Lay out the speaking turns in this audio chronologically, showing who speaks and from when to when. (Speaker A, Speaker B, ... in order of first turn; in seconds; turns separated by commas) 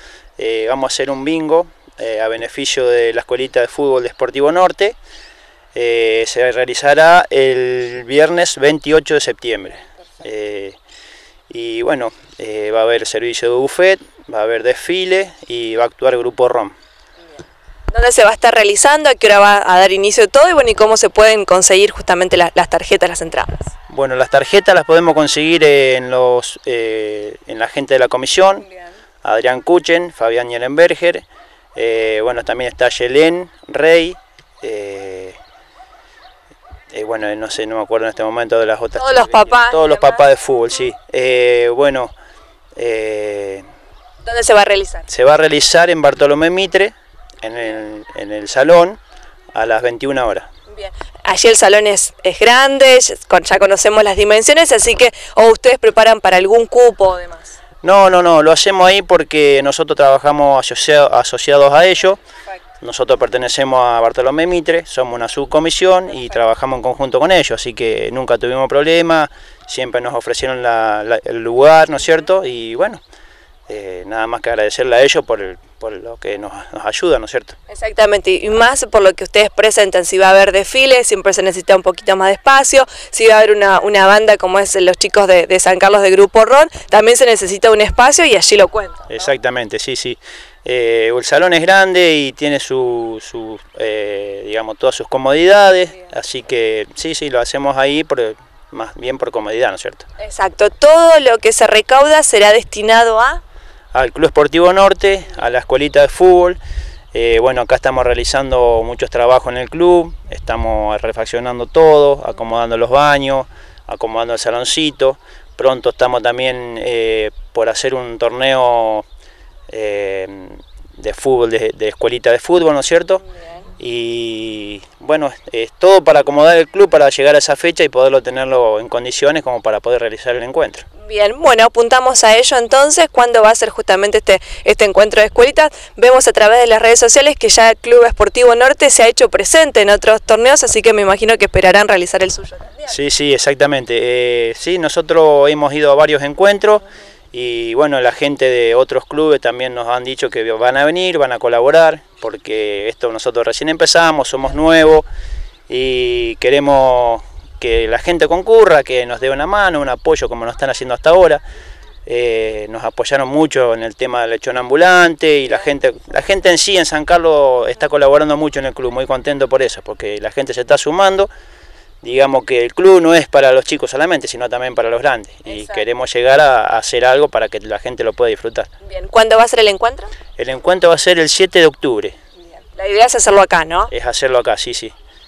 Speaker A: 0.4-5.0, Speaker A: 5.7-10.8, Speaker A: 11.5-16.7, Speaker B: 17.9-23.6, Speaker A: 23.9-28.6, Speaker A: 29.2-31.2, Speaker A: 31.8-35.4, Speaker A: 36.9-42.1, Speaker B: 39.0-40.2, Speaker A: 42.8-43.6, Speaker B: 44.2-45.1, Speaker A: 45.1-49.0, Speaker A: 49.5-50.5, Speaker B: 50.7-57.6, Speaker A: 57.8-62.2, Speaker A: 62.8-73.0, Speaker A: 73.7-77.6, Speaker B: 77.7-89.1, Speaker A: 89.1-100.0, Speaker B: 100.2-103.4, Speaker A: 103.9-106.6, Speaker A: 107.1-119.0, Speaker A: 119.7-123.2, Speaker A: 123.8-130.8, Speaker B: 131.0-142.9, Speaker A: 142.8-155.1, Speaker A: 155.7-161.4, Speaker A: 162.1-171.3, Speaker A: 172.0-178.7, Speaker B: 175.5-175.8, Speaker B: 178.8-180.1, Speaker A: 180.4-182.1, Speaker B: 182.7-183.9, Speaker A: 183.9-184.9